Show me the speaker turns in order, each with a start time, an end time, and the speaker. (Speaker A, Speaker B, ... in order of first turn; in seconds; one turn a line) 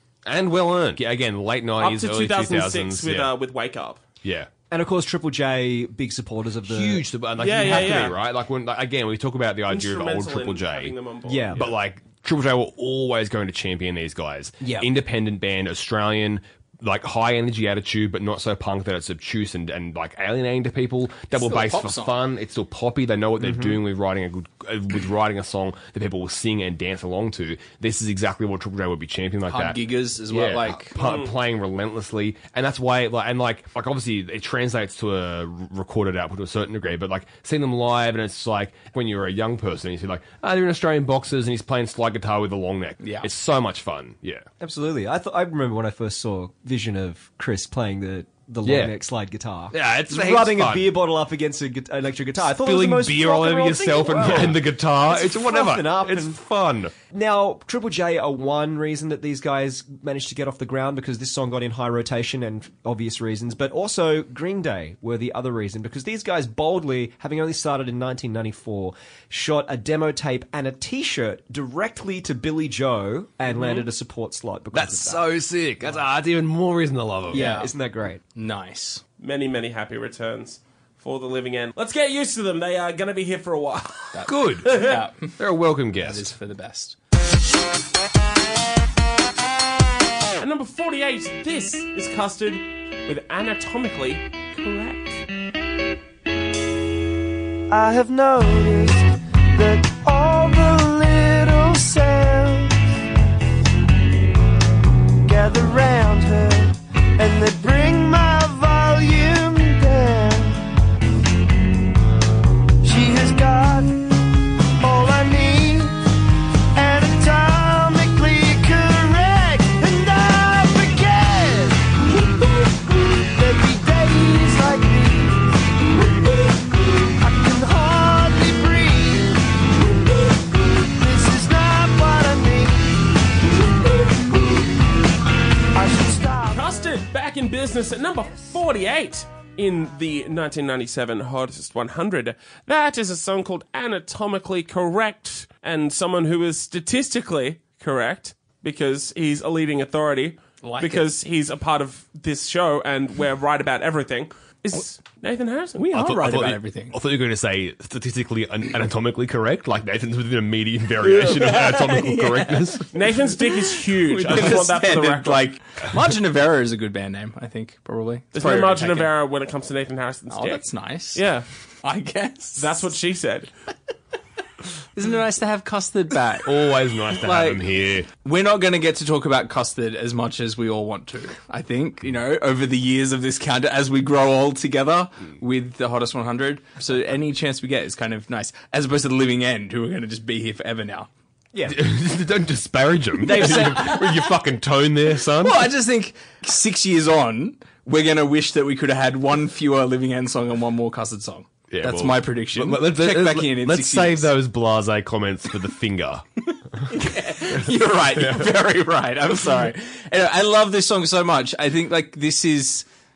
Speaker A: 0.2-3.3
Speaker B: 1.8-4.0
Speaker A: 4.2-4.5
Speaker C: 4.7-7.0
Speaker A: 6.7-10.9
Speaker B: 7.4-8.2
Speaker C: 7.6-8.2
Speaker B: 9.7-11.7
Speaker C: 11.3-11.6
Speaker A: 11.5-44.5
Speaker C: 14.6-14.9
Speaker D: 21.3-22.1
Speaker C: 23.4-23.8
Speaker D: 29.5-31.0
Speaker B: 30.9-31.4
Speaker D: 43.0-43.3
Speaker C: 44.6-56.4
Speaker A: 48.6-48.9
Speaker A: 49.7-50.9
Speaker A: 52.5-56.9
Speaker C: 57.0-75.3
Speaker A: 74.7-77.5
Speaker C: 77.3-78.2
Speaker D: 77.3-77.7
Speaker D: 78.3-79.0
Speaker B: 79.2-85.0
Speaker D: 84.1-85.4
Speaker A: 84.2-86.3
Speaker D: 86.0-87.0
Speaker B: 90.4-95.2
Speaker E: 97.7-99.0
Speaker E: 99.5-102.7
Speaker E: 105.3-110.7
Speaker E: 112.8-113.9
Speaker E: 114.8-116.0
Speaker E: 116.7-134.8
Speaker E: 135.7-136.7
Speaker B: 136.5-155.9
Speaker D: 150.6-151.1
Speaker D: 155.8-157.0
Speaker A: 155.9-162.9
Speaker D: 161.0-169.1
Speaker B: 162.9-165.5
Speaker B: 168.3-171.5
Speaker D: 170.3-171.2
Speaker D: 171.8-172.8
Speaker B: 172.6-173.5
Speaker D: 174.9-191.1
Speaker A: 176.4-178.1
Speaker C: 191.5-191.8
Speaker A: 191.7-195.7
Speaker C: 193.2-194.2
Speaker D: 193.3-194.0
Speaker D: 195.4-204.3
Speaker A: 201.7-206.2
Speaker D: 206.8-212.8
Speaker A: 208.2-208.5